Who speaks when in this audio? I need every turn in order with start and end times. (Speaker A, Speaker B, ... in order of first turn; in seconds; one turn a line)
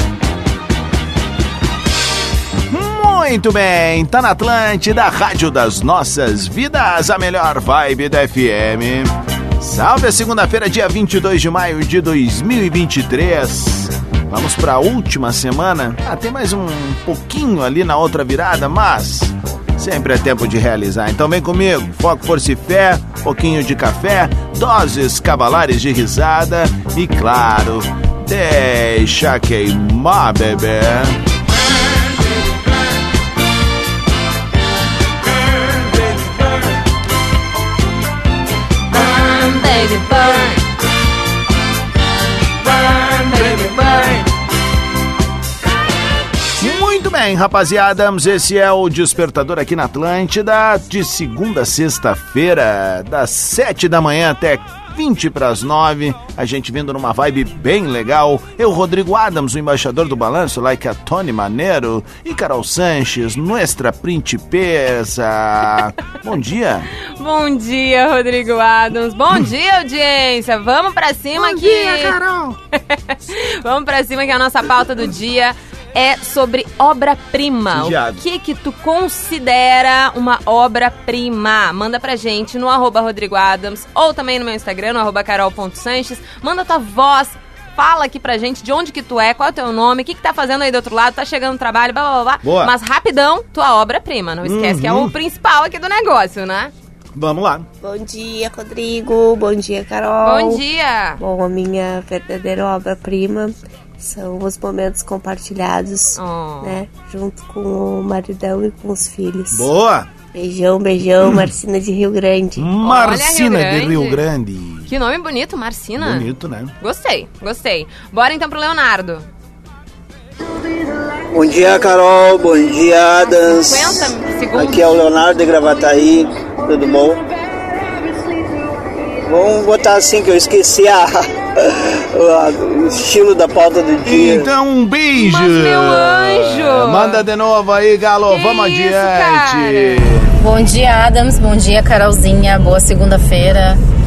Speaker A: 2.7-31.2
Speaker B: 38.9-40.6
Speaker B: 42.9-44.2
Speaker A: 46.6-66.9
Speaker B: 67.2-72.2
Speaker A: 71.4-72.6
Speaker B: 72.8-96.7
Speaker A: 77.7-78.2
Speaker A: 92.4-92.7
Speaker A: 94.4-95.1
Speaker A: 97.2-97.7
Speaker C: 97.8-100.6
Speaker B: 100.2-101.2
Speaker C: 101.2-109.7
Speaker B: 106.2-106.8
Speaker A: 109.5-110.1
Speaker C: 110.3-112.8
Speaker A: 112.6-114.9
Speaker B: 112.8-114.2
Speaker B: 114.9-116.3
Speaker A: 116.0-116.7
Speaker B: 116.8-119.3
Speaker D: 121.3-127.2
Speaker B: 123.2-125.0
Speaker D: 129.3-134.5
Speaker A: 134.1-140.3
Speaker B: 135.2-137.2
Speaker B: 138.3-140.0
Speaker E: 140.4-143.8